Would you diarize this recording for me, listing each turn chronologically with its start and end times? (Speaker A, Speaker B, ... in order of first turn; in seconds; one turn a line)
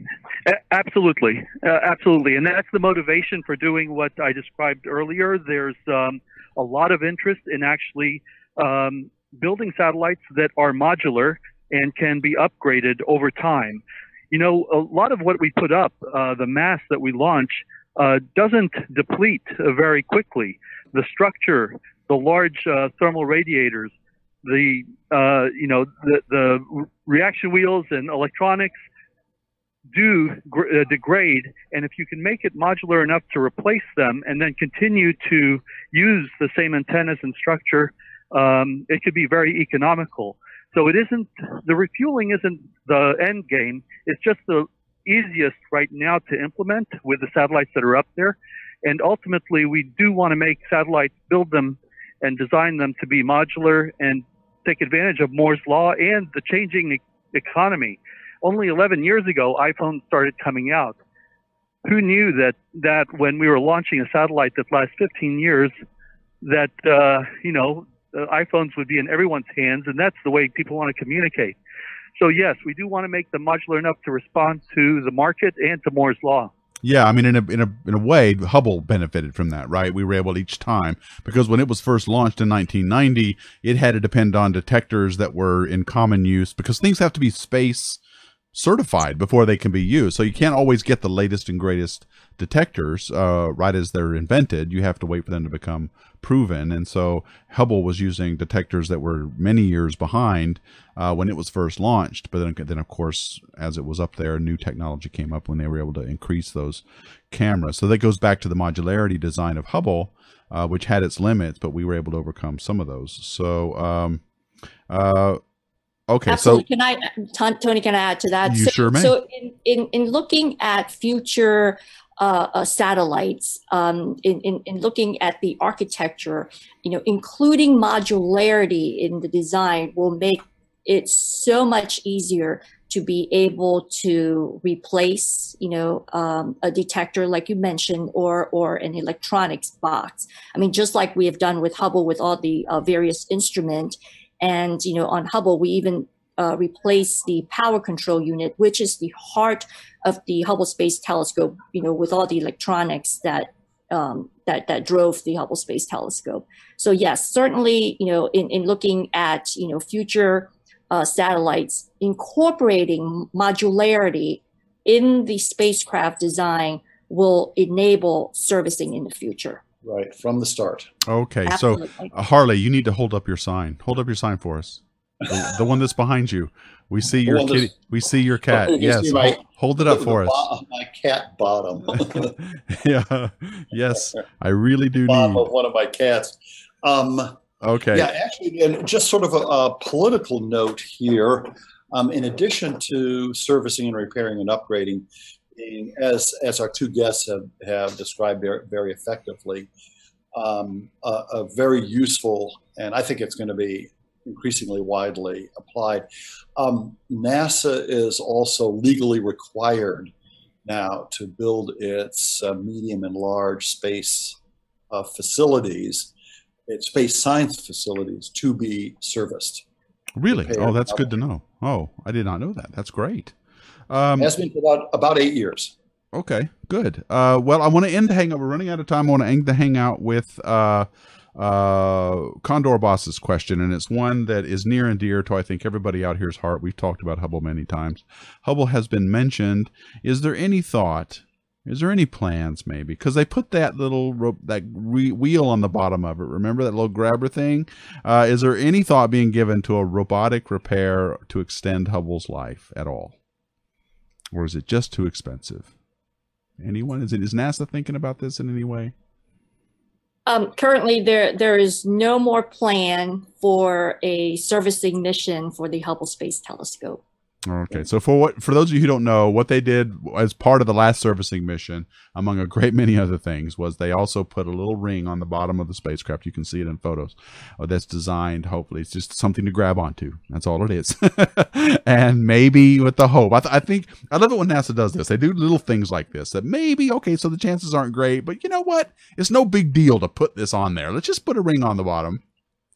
Speaker A: 0.5-23.9
Speaker A: 24.4-28.7
Speaker A: 29.9-61.0
Speaker A: 61.8-65.7
Speaker A: 66.4-71.6
Speaker A: 72.2-76.5
Speaker B: 76.8-88.0
Speaker B: 88.5-114.2
Speaker B: 114.9-115.4
Speaker B: 116.1-116.7
Speaker C: 116.3-169.6
Speaker B: 118.5-119.1
Speaker D: 169.8-170.9
Speaker B: 171.1-180.5
Speaker C: 171.5-172.1
Speaker D: 177.2-177.7
Speaker D: 178.5-182.4
Speaker B: 182.2-185.5
Speaker D: 185.1-187.4
Speaker B: 187.6-188.1
Speaker D: 187.9-199.7
Speaker D: 200.3-206.1
Speaker D: 206.6-210.1
Speaker D: 210.7-214.4
Speaker D: 214.9-216.1
Speaker D: 216.7-219.6
Speaker B: 220.2-223.3
Speaker D: 220.3-221.1
Speaker B: 223.9-224.3
Speaker D: 224.2-225.7
Speaker B: 226.1-253.2
Speaker B: 254.3-255.7
Speaker B: 256.6-258.9
Speaker C: 260.3-267.0
Speaker B: 267.5-292.2